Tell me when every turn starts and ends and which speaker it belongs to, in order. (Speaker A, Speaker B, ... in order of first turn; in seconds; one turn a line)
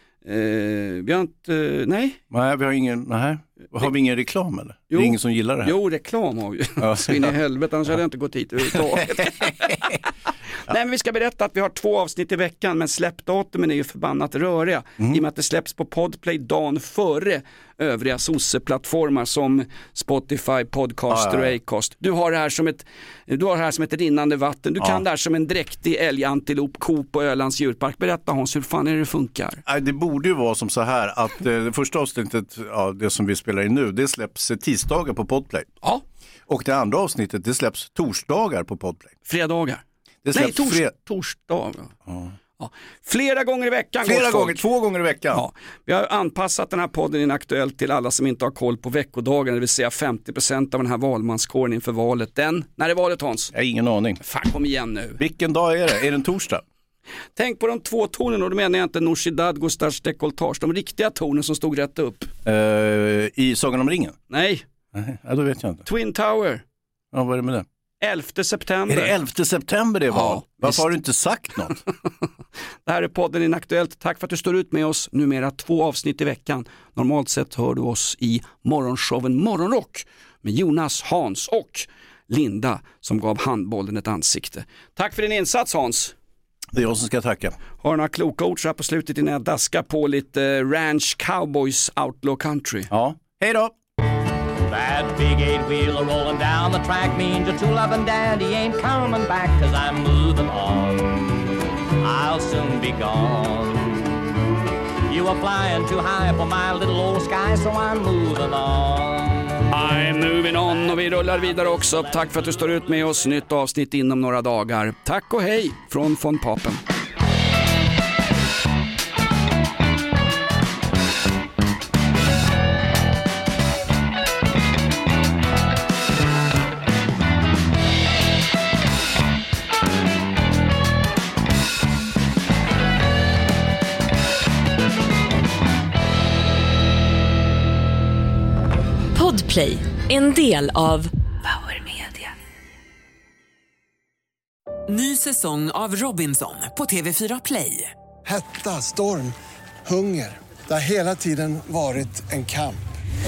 Speaker A: 0.2-2.2
Speaker B: 2.3-5.8
Speaker A: 4.9-10.0
Speaker B: 6.8-7.3
Speaker B: 8.8-9.5
Speaker A: 10.7-29.6
Speaker B: 21.1-21.6
Speaker B: 29.7-35.7
Speaker B: 36.5-39.1
Speaker A: 39.3-41.9
Speaker B: 40.2-40.9
Speaker B: 42.1-42.3
Speaker A: 42.6-44.6
Speaker B: 44.0-45.4
Speaker A: 45.3-53.5
Speaker B: 53.5-54.2
Speaker A: 54.2-55.2
Speaker B: 55.2-56.6
Speaker A: 57.4-62.3
Speaker B: 62.5-64.2
Speaker A: 64.3-64.7
Speaker B: 65.0-65.8
Speaker A: 65.9-66.6
Speaker B: 67.1-67.7
Speaker A: 68.0-69.2
Speaker B: 68.9-71.8
Speaker A: 70.1-70.8
Speaker A: 72.9-86.1
Speaker B: 86.7-87.6
Speaker A: 87.8-92.9
Speaker B: 92.9-93.8
Speaker C: 94.7-101.3
Speaker C: 102.0-104.0
Speaker C: 105.1-113.2
Speaker A: 109.7-116.8
Speaker D: 139.1-142.2
Speaker E: 144.9-147.9
Speaker F: 148.3-152.8